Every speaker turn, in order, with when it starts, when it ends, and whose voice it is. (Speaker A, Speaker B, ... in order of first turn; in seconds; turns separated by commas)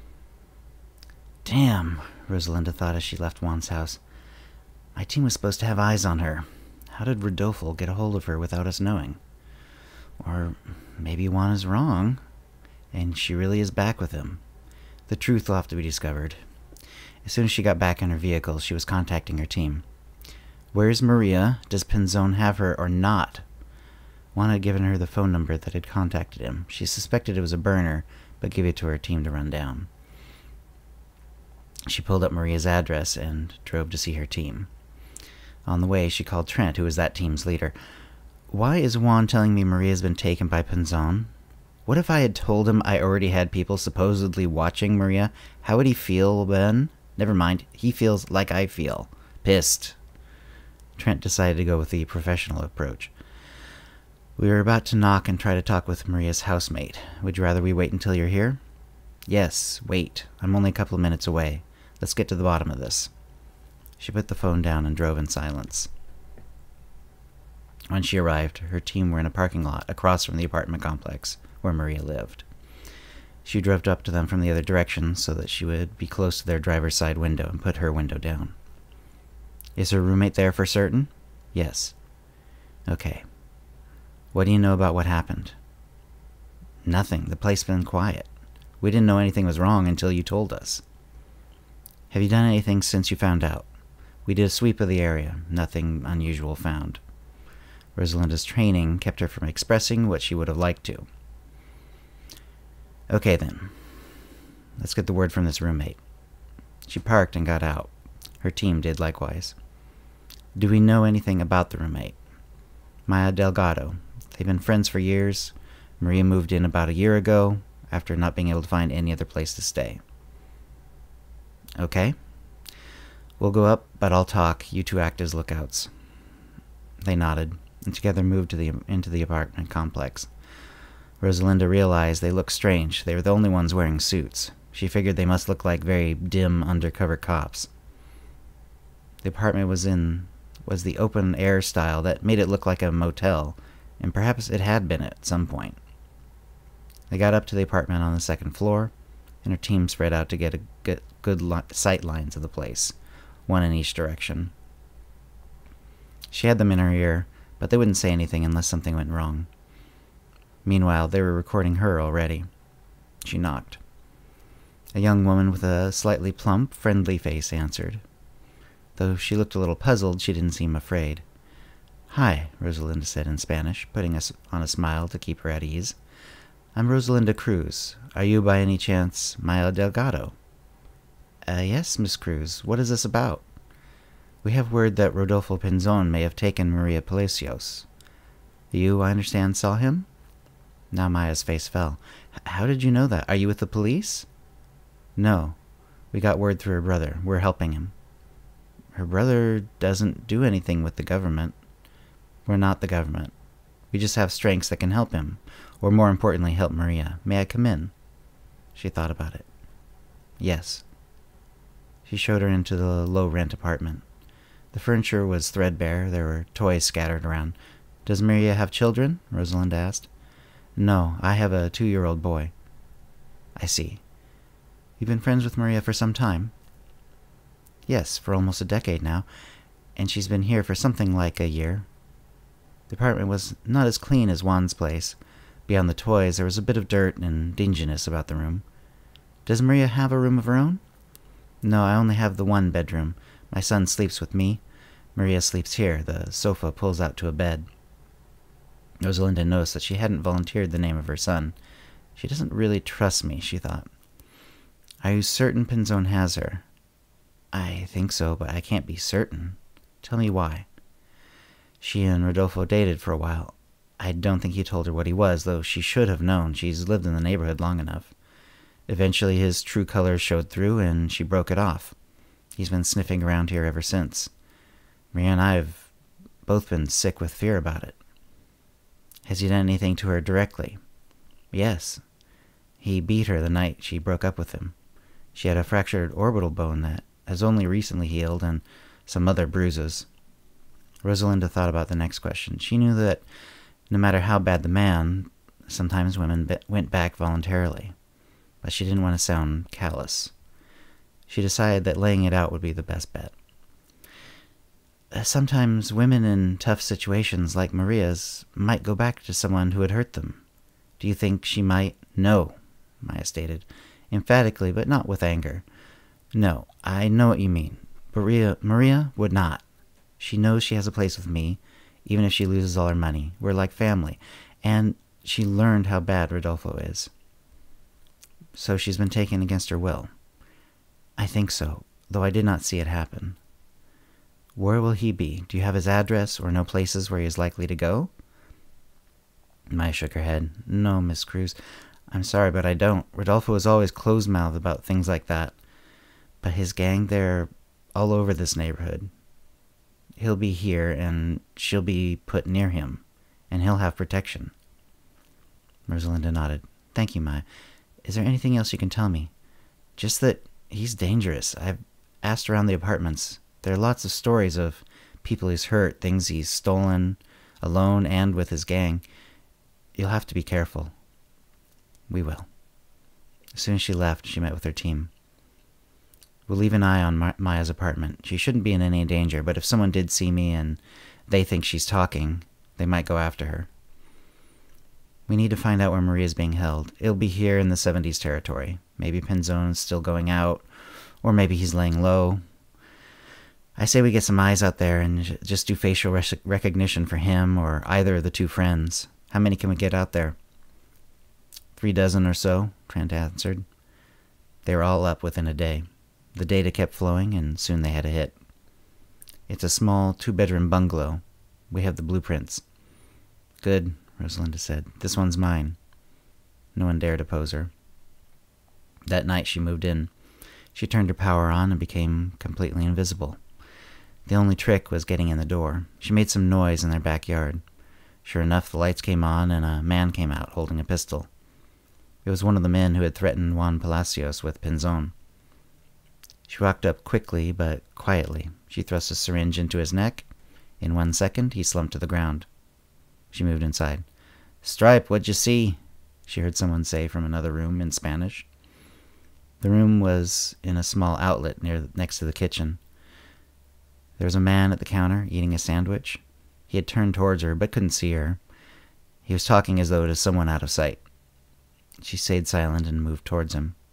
Speaker A: 1.4-4.0, Speaker A: 5.0-9.2, Speaker A: 10.2-12.2, Speaker A: 12.9-14.4, Speaker A: 15.1-16.4, Speaker A: 17.2-19.8, Speaker A: 20.7-23.4, Speaker A: 24.3-29.9, Speaker A: 31.9-34.7, Speaker A: 35.7-37.7, Speaker A: 38.5-41.3, Speaker A: 41.9-50.0, Speaker A: 51.0-53.1, Speaker A: 54.4-58.6, Speaker A: 59.3-63.1, Speaker A: 64.0-65.9, Speaker A: 67.9-72.4, Speaker A: 73.4-78.5, Speaker A: 79.8-82.0, Speaker A: 82.9-83.2, Speaker A: 84.3-85.6, Speaker A: 86.8-88.3, Speaker A: 88.8-90.8, Speaker A: 92.1-93.7, Speaker A: 94.2-97.0, Speaker A: 98.0-101.1, Speaker A: 103.1-103.9, Speaker A: 104.8-106.0, Speaker A: 106.9-107.9, Speaker A: 108.4-109.6, Speaker A: 110.6-112.2, Speaker A: 113.1-120.0, Speaker A: 121.8-122.2, Speaker A: 123.4-125.9, Speaker A: 127.0-130.3, Speaker A: 131.2-137.7, Speaker A: 139.2-145.8, Speaker A: 147.1-148.9, Speaker A: 149.4-152.9, Speaker A: 153.5-154.5, Speaker A: 156.3-159.5, Speaker A: 160.6-162.5, Speaker A: 163.2-163.8, Speaker A: 164.9-168.0, Speaker A: 168.9-171.2, Speaker A: 172.1-176.0, Speaker A: 176.8-180.3, Speaker A: 181.5-183.4, Speaker A: 184.4-187.9, Speaker A: 188.7-190.1, Speaker A: 190.9-194.3, Speaker A: 195.2-195.6, Speaker A: 196.1-197.9, Speaker A: 198.9-201.6, Speaker A: 202.5-203.3, Speaker A: 203.9-207.9, Speaker A: 208.8-209.5, Speaker A: 210.4-210.8, Speaker A: 212.1-214.0, Speaker A: 214.7-220.1, Speaker A: 220.8-222.5, Speaker A: 223.6-224.0, Speaker A: 225.0-226.5, Speaker A: 227.9-229.3, Speaker A: 229.9-231.9, Speaker A: 232.9-238.6, Speaker A: 239.4-240.8, Speaker A: 241.6-244.6, Speaker A: 245.2-247.7, Speaker A: 249.0-251.6, Speaker A: 252.2-253.9, Speaker A: 255.0-256.6, Speaker A: 257.5-260.7, Speaker A: 261.8-268.1, Speaker A: 268.9-271.9, Speaker A: 272.6-274.3, Speaker A: 275.1-275.9, Speaker A: 276.5-278.0, Speaker A: 279.3-280.8, Speaker A: 281.5-282.0, Speaker A: 282.8-284.8, Speaker A: 285.4-290.1, Speaker A: 291.0-293.2, Speaker A: 293.9-297.9, Speaker A: 298.6-300.3, Speaker A: 301.3-303.3, Speaker A: 305.1-310.4, Speaker A: 311.0-315.6, Speaker A: 316.3-319.6, Speaker A: 320.2-327.1, Speaker A: 328.6-330.1, Speaker A: 331.2-333.4, Speaker A: 334.6-338.1, Speaker A: 339.7-341.6, Speaker A: 342.1-345.6, Speaker A: 346.4-349.1, Speaker A: 350.2-354.5, Speaker A: 355.9-357.4, Speaker A: 358.1-359.3, Speaker A: 360.0-369.0, Speaker A: 370.0-370.9, Speaker A: 372.1-372.5, Speaker A: 373.5-375.1, Speaker A: 376.5-383.7, Speaker A: 385.3-390.6, Speaker A: 391.2-392.4, Speaker A: 393.8-400.4, Speaker A: 401.8-403.6, Speaker A: 404.6-408.4, Speaker A: 409.5-412.6, Speaker A: 413.6-415.8, Speaker A: 416.8-417.7, Speaker A: 419.1-420.1, Speaker A: 420.8-423.4, Speaker A: 424.3-427.6, Speaker A: 428.2-431.3, Speaker A: 432.2-435.1, Speaker A: 436.5-440.3, Speaker A: 440.8-442.5, Speaker A: 443.3-444.1, Speaker A: 444.6-448.5, Speaker A: 449.6-452.8, Speaker A: 454.2-458.4, Speaker A: 459.2-461.0, Speaker A: 462.0-463.8